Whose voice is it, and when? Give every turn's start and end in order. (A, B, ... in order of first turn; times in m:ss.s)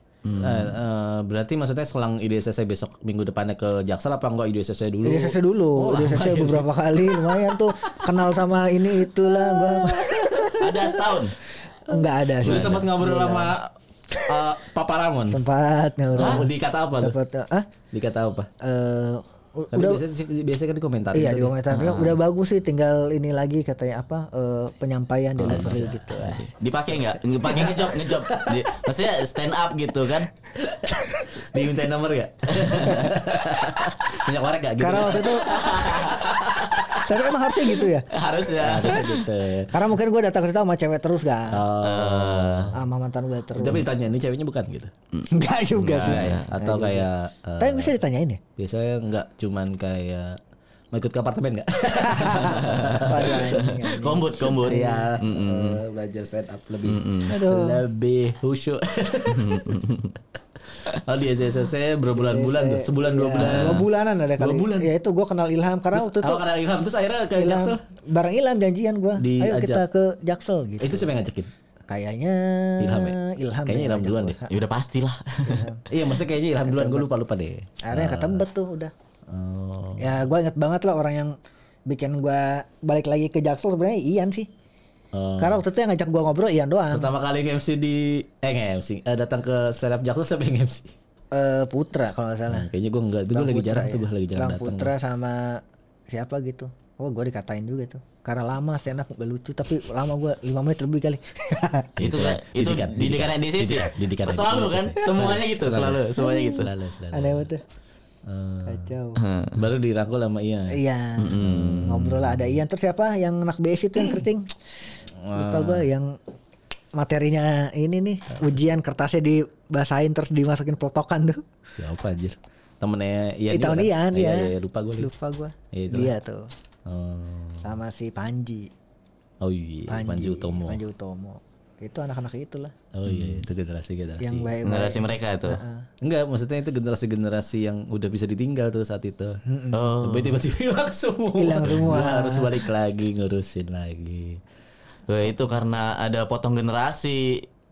0:00.2-0:00.8 A
0:00.4-0:08.1 B
0:05.0-0:10.9 C
0:09.3-0:10.7 B
0:10.5-0:11.4 A
0:11.9-0:13.5 C
0:12.4-0:15.4 B
0:12.5-0:12.8 A
0:14.1-0:14.4 C
0:15.3-0:17.7 C
0:16.1-0:17.2 B
0:17.9-0:18.5 B
0:18.6-0:20.0 C
0:19.7-0:21.6 B
0:21.1-0:26.4 C
0:21.7-0:22.2 A
0:25.4-0:30.3 A
0:25.5-0:26.4 B
0:27.5-0:28.8 B
0:30.6-0:37.0 B
0:32.5-0:33.2 A
0:34.8-0:35.5 C
0:35.4-0:37.0 A
0:37.0-0:38.1 C
0:38.1-0:39.2 A
0:38.5-0:39.8 B
0:39.7-0:41.6 C
0:41.5-0:42.8 B
0:41.8-0:42.7 A
0:42.7-0:43.9 C
0:43.5-0:44.9 B
0:45.1-0:46.5 A
0:45.3-0:47.1 C
0:45.9-0:47.9 B
0:47.6-0:48.4 C
0:48.6-0:50.4 B
0:50.9-0:53.6 B
0:52.0-0:55.1 C
0:52.4-0:55.8 A
0:54.6-0:59.8 B
0:56.9-0:57.3 A
0:57.3-0:57.8 C
0:59.3-1:00.1 A
1:00.8-1:04.9 B
1:02.1-1:06.4 C
1:03.4-1:03.8 A
1:05.9-1:07.8 B
1:07.4-1:11.1 C
1:09.2-1:09.8 B
1:10.8-1:11.5 B
1:11.9-1:14.5 C
1:12.8-1:14.4 B
1:14.5-1:15.7 A
1:15.4-1:15.8 C
1:15.9-1:18.4 B
1:16.6-1:17.1 C
1:17.8-1:18.9 C
1:19.3-1:20.2 B
1:20.0-1:21.4 C
1:21.9-1:24.5 C
1:25.1-1:25.6 B
1:25.4-1:27.1 C
1:26.9-1:30.9 B
1:31.3-1:32.7 C
1:32.5-1:34.9 B
1:33.3-1:41.9 C
1:42.0-1:47.5 B
1:42.0-1:46.7 A
1:46.2-1:47.6 C
1:48.2-1:48.9 B
1:48.6-1:49.2 C
1:49.2-1:49.6 A
1:49.5-1:50.8 B
1:50.7-1:54.5 C
1:51.2-1:51.9 A
1:51.4-1:52.6 B
1:55.2-1:55.9 B
1:55.3-1:56.2 C
1:57.0-2:01.4 C
2:01.7-2:05.1 B
2:03.5-2:06.5 C
2:05.7-2:06.1 B
2:06.9-2:07.7 B
2:07.6-2:08.7 C
2:09.4-2:10.8 B
2:09.9-2:12.7 C
2:12.9-2:14.5 B
2:13.1-2:13.4 A
2:14.2-2:15.9 C
2:14.6-2:15.6 A
2:16.0-2:19.4 B
2:19.4-2:19.9 C
2:19.7-2:20.4 A
2:20.0-2:24.4 B
2:21.4-2:22.6 C
2:25.1-2:27.4 A